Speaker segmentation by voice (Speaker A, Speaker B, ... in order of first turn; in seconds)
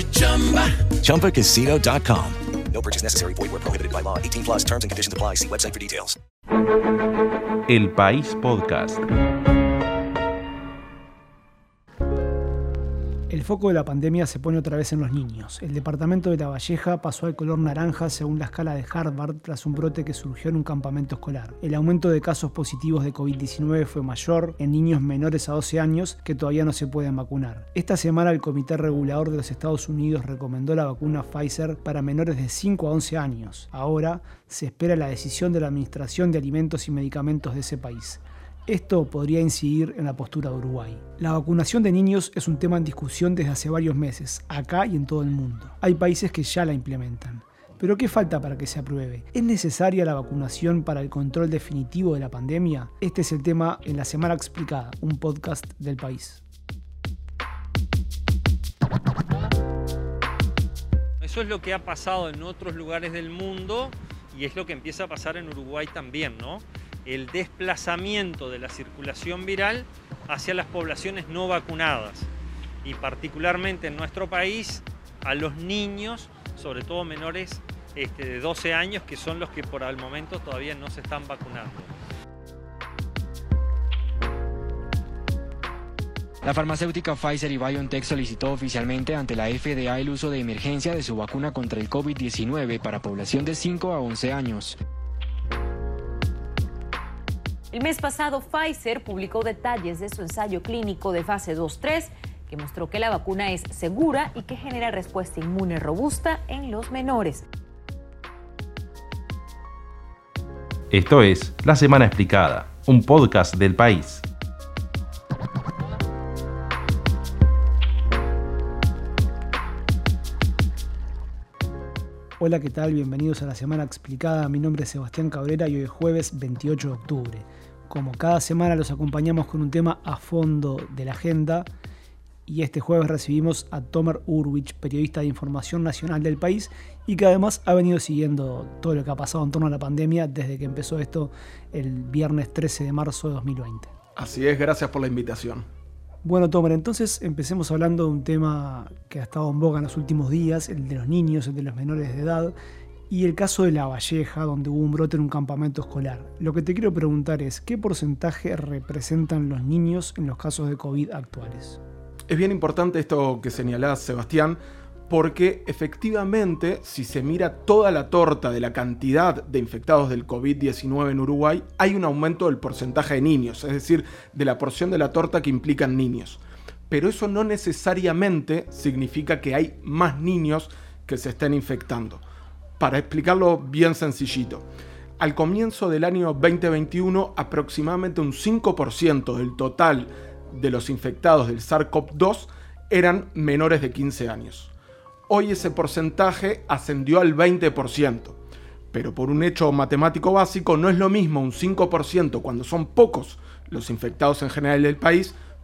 Speaker A: 1.0-6.2
Speaker B: 7.7-9.0, 110.9-114.2
Speaker C: 13.3-56.4, 122.4-131.7, 132.4-143.9, 146.2-152.5, 153.1-161.8
Speaker D: 61.2-72.3, 72.8-81.9
Speaker E: 86.4-94.8
Speaker F: 97.7-107.4
Speaker G: 144.2-145.6, 162.3-182.2, 182.8-184.6, 185.2-194.7, 195.3-198.4, 198.9-205.3